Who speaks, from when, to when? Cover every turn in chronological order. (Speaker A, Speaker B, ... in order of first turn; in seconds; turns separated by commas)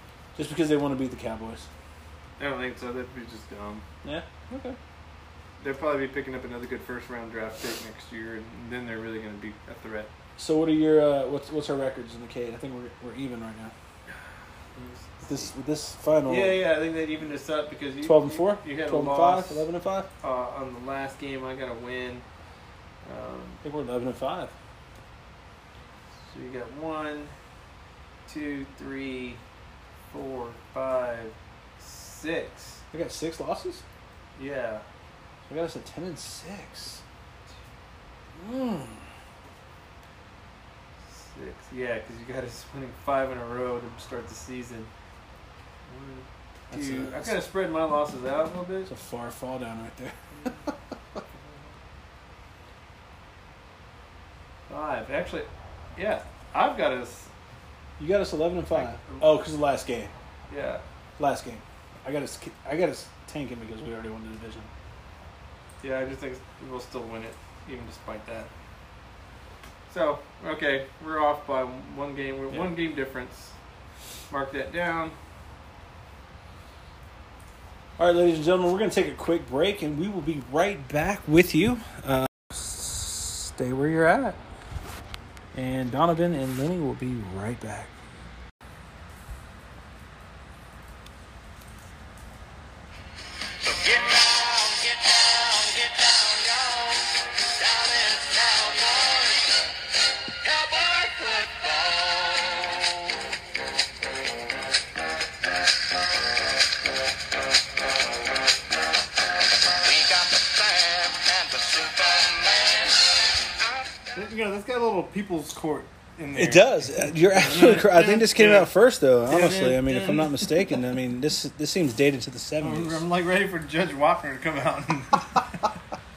Speaker A: 0.4-1.7, Speaker B: 2.4-3.8, Speaker A: 4.0-4.8, Speaker B: 5.6-10.1, Speaker A: 10.4-13.7, Speaker B: 14.8-15.5, Speaker A: 15.2-16.6, Speaker B: 16.3-19.6, Speaker A: 18.0-20.1, Speaker B: 20.2-22.2, Speaker B: 23.0-23.6, Speaker A: 23.6-24.5, Speaker B: 26.3-27.3, Speaker B: 28.3-29.4, Speaker B: 30.1-32.8, Speaker A: 32.9-33.8, Speaker B: 34.4-34.9, Speaker A: 35.5-37.0, Speaker A: 38.4-39.0, Speaker B: 41.1-44.9, Speaker B: 45.9-48.9, Speaker A: 46.7-47.4, Speaker A: 48.9-50.7, Speaker B: 54.7-57.3, Speaker A: 58.0-60.1, Speaker B: 58.7-59.2, Speaker B: 60.5-60.8, Speaker A: 61.2-64.7, Speaker B: 65.8-68.5, Speaker B: 69.9-73.6, Speaker B: 74.3-75.2, Speaker A: 78.0-84.4, Speaker A: 85.5-87.9, Speaker C: 93.6-99.7, Speaker C: 100.4-103.1, Speaker C: 109.7-114.2, Speaker B: 114.1-118.7, Speaker A: 116.3-123.0, Speaker B: 119.3-120.7, Speaker B: 122.6-125.6